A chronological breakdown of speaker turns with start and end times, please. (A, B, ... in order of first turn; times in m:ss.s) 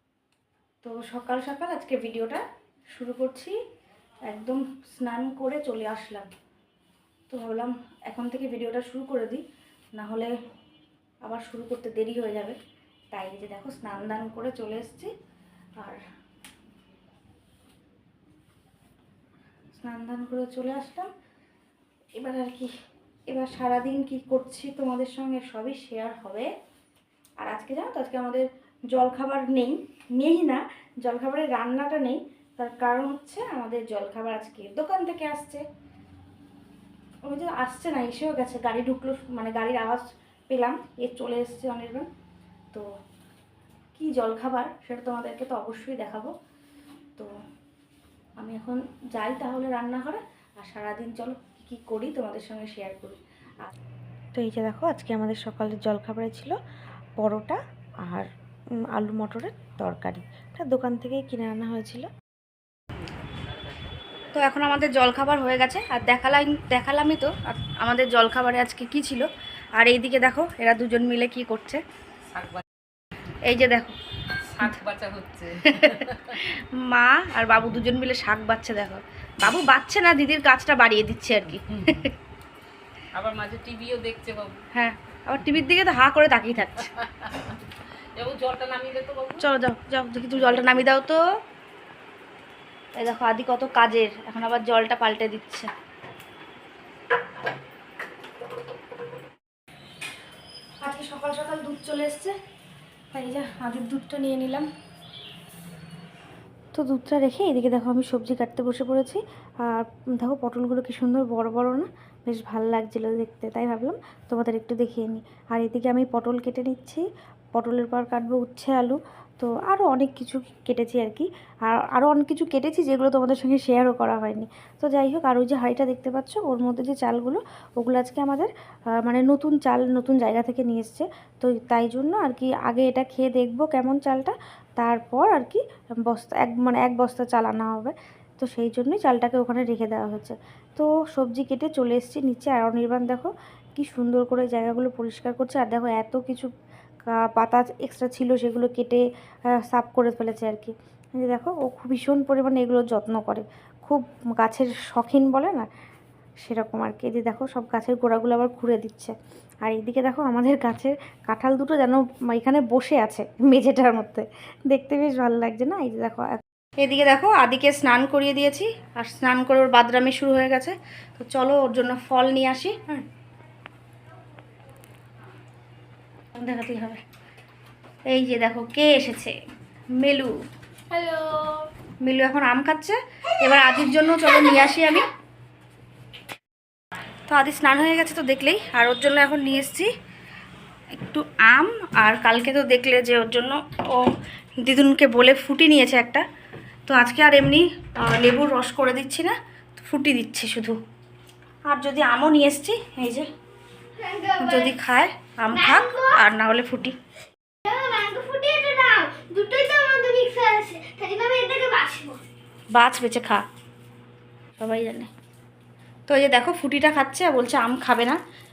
0:00.8-0:03.6 A
0:04.2-0:06.3 A
0:07.3-0:09.4 A
0:09.9-0:10.3 A
0:11.2-0:12.6 A
0:13.1-0:15.1 A
0:19.7-0:21.1 A
0:22.1-0:22.7 A
0:23.3-0:26.5 A
0:27.4-0:35.6 A
0:37.2-0:42.1 A
0:43.9-0:46.3 A
0:48.4-0:53.7 A
0:54.3-0:56.6 A
0:57.2-0:58.3 A
0:58.9-1:02.1 A
1:04.3-1:09.2 A
1:09.8-1:11.8 A
1:12.3-1:12.6 B
1:13.4-1:13.9 A
1:14.6-1:14.8 A
1:14.6-1:16.3 B
1:15.6-1:22.1 A
1:23.1-1:24.6 B
1:24.7-1:26.9 A
1:28.2-1:29.4 B
1:29.4-1:31.2 A
1:30.5-1:30.8 B
1:33.0-1:35.7 A
1:40.8-1:42.3 A
1:43.1-1:44.7 A
1:46.7-2:08.5 A
2:09.0-2:26.5 A
2:27.1-2:35.7 A
2:36.4-2:53.0 A
2:56.3-2:57.0 A
2:58.1-2:59.3 A
3:00.0-3:00.3 A
3:00.9-3:01.6 C
3:02.0-3:05.1 A
3:07.3-3:09.9 A
3:11.0-3:14.1 A
3:14.6-3:16.2 A
3:16.8-3:20.8 A
3:21.7-3:23.3 A
3:24.0-3:24.8 C
3:24.4-3:26.9 A
3:25.5-3:26.2 C
3:27.6-3:32.2 C
3:32.7-3:33.4 A
3:34.6-3:35.1 A
3:36.1-3:38.2 A